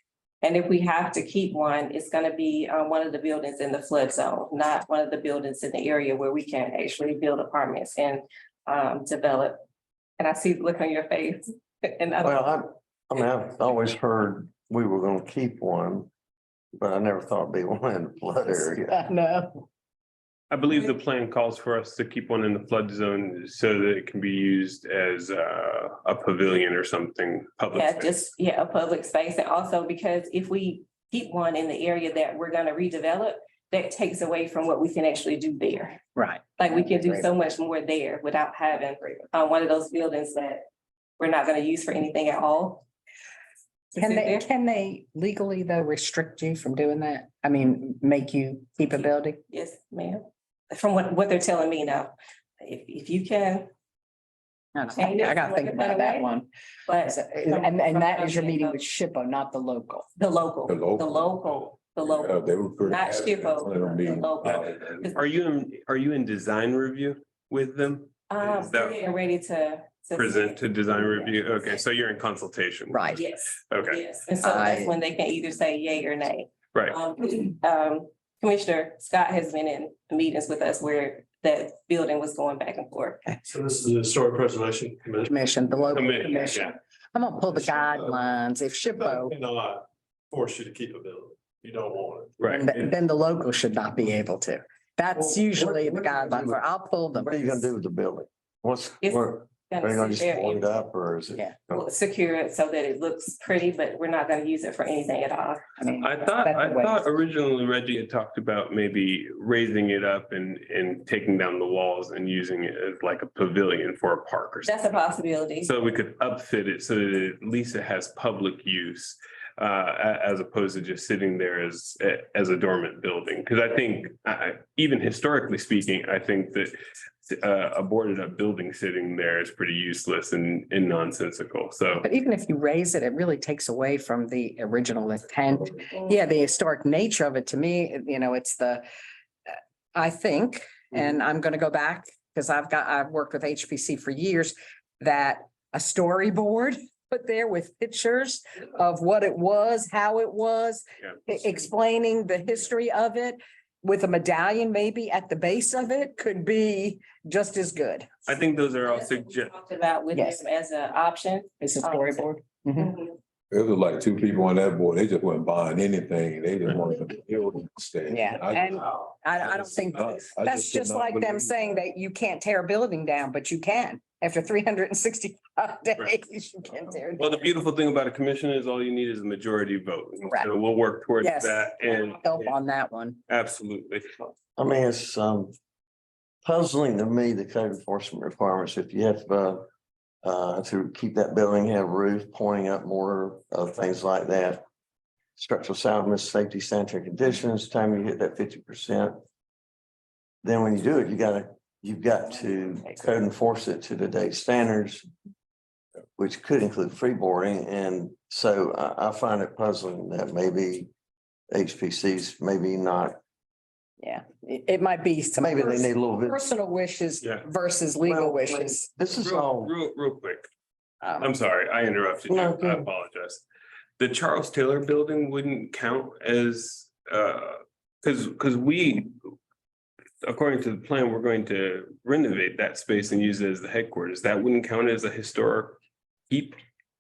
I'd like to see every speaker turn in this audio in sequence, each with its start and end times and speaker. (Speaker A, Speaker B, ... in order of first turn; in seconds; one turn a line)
Speaker A: 0.4-9.6
Speaker A: 10.2-12.5
Speaker B: 12.2-16.1
Speaker B: 16.7-18.9
Speaker C: 18.5-19.6
Speaker D: 20.5-28.1
Speaker A: 27.8-36.0
Speaker C: 36.2-37.3
Speaker A: 36.6-40.6
Speaker A: 41.2-42.9
Speaker C: 43.9-49.4
Speaker A: 44.0-44.5
Speaker A: 49.0-53.7
Speaker C: 54.8-56.5
Speaker A: 55.0-56.3
Speaker A: 56.9-58.8
Speaker C: 57.0-60.1
Speaker A: 60.2-65.2
Speaker E: 60.7-64.9
Speaker D: 65.0-69.1
Speaker A: 68.3-70.6
Speaker D: 70.2-73.1
Speaker C: 72.9-73.2
Speaker A: 73.1-83.3
Speaker D: 73.7-74.0
Speaker C: 74.4-75.0
Speaker F: 83.4-86.0
Speaker C: 85.3-89.3
Speaker D: 85.9-86.7
Speaker F: 87.5-88.2
Speaker F: 89.0-92.4
Speaker D: 92.4-92.8
Speaker C: 92.5-97.7
Speaker B: 95.2-96.6
Speaker B: 97.1-101.9
Speaker A: 99.0-100.9
Speaker A: 101.7-105.7
Speaker C: 105.8-107.0
Speaker D: 106.0-114.9
Speaker A: 114.7-115.7
Speaker D: 115.6-126.7
Speaker D: 127.2-132.1
Speaker C: 132.0-138.8
Speaker C: 139.9-158.1
Speaker D: 158.3-159.5
Speaker A: 158.9-162.3
Speaker C: 160.1-160.4
Speaker C: 161.6-162.9
Speaker A: 162.8-163.2
Speaker E: 163.5-168.8
Speaker C: 168.1-177.4
Speaker E: 169.4-171.8
Speaker D: 177.2-182.6
Speaker C: 181.2-183.2
Speaker D: 183.3-184.1
Speaker B: 184.6-185.5
Speaker B: 186.4-189.7
Speaker B: 190.2-194.6
Speaker B: 195.4-199.2
Speaker B: 200.4-205.1
Speaker B: 206.2-210.9
Speaker B: 211.5-213.2
Speaker C: 214.0-218.9
Speaker B: 215.4-216.4
Speaker B: 218.0-219.7
Speaker D: 219.1-220.4
Speaker C: 221.0-221.3
Speaker D: 221.2-223.4
Speaker B: 222.3-222.9
Speaker D: 224.0-229.2
Speaker D: 230.2-236.6